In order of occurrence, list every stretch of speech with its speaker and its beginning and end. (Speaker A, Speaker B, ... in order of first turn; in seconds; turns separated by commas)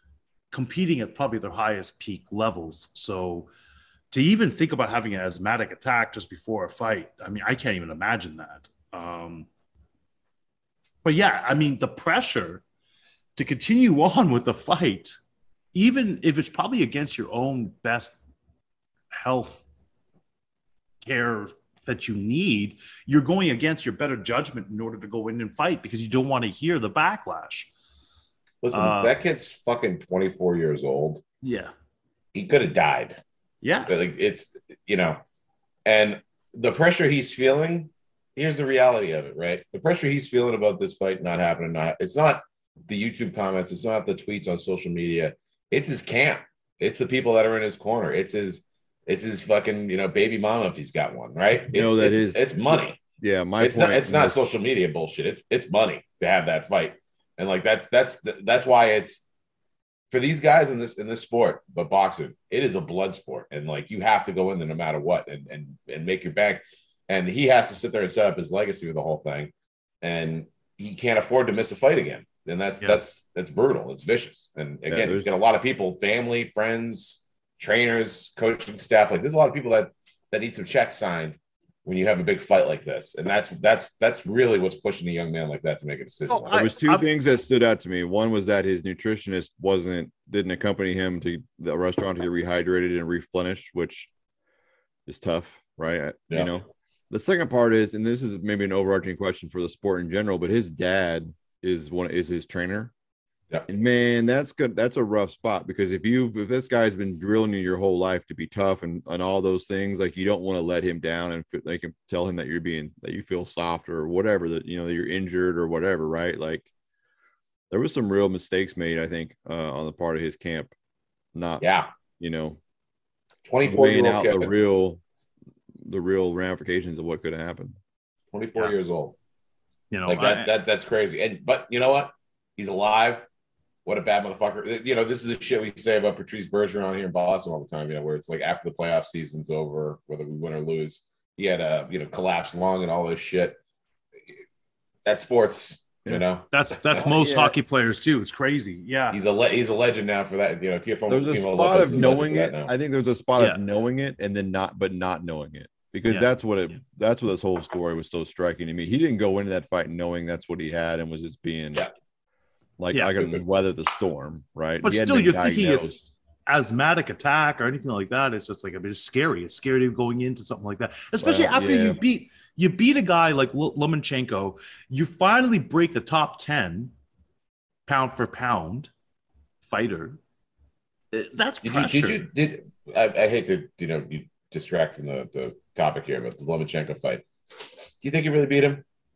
Speaker A: 0.5-3.5, Speaker A: 4.1-9.5, Speaker A: 11.0-12.6, Speaker A: 13.3-15.2, Speaker A: 15.7-18.2, Speaker A: 19.1-19.6, Speaker A: 21.0-27.7, Speaker B: 28.6-31.2, Speaker A: 28.7-29.1, Speaker A: 31.4-31.7, Speaker B: 32.3-33.2, Speaker A: 33.6-33.9, Speaker B: 33.9-35.2, Speaker B: 35.9-53.0, Speaker C: 51.7-54.4, Speaker B: 53.6-59.2, Speaker B: 60.1-86.6, Speaker C: 74.9-75.3, Speaker A: 86.3-87.1, Speaker C: 86.5-94.1, Speaker C: 95.0-102.9, Speaker C: 103.7-116.7, Speaker C: 117.7-120.7, Speaker C: 121.3-121.6, Speaker B: 121.6-121.9, Speaker C: 122.2-122.6, Speaker B: 123.4-124.5, Speaker C: 123.6-125.0, Speaker C: 125.8-127.8, Speaker B: 128.3-129.2, Speaker A: 129.9-130.5, Speaker B: 130.1-133.2, Speaker B: 133.8-143.6, Speaker B: 145.0-147.1, Speaker A: 146.5-149.2, Speaker C: 147.0-147.5, Speaker B: 149.1-152.7, Speaker C: 151.1-161.9, Speaker C: 162.8-166.0, Speaker A: 162.9-163.2, Speaker A: 164.8-176.9, Speaker C: 171.2-172.0, Speaker A: 177.8-178.9, Speaker A: 179.6-180.2, Speaker A: 181.1-182.2, Speaker B: 181.6-187.2, Speaker B: 188.0-188.8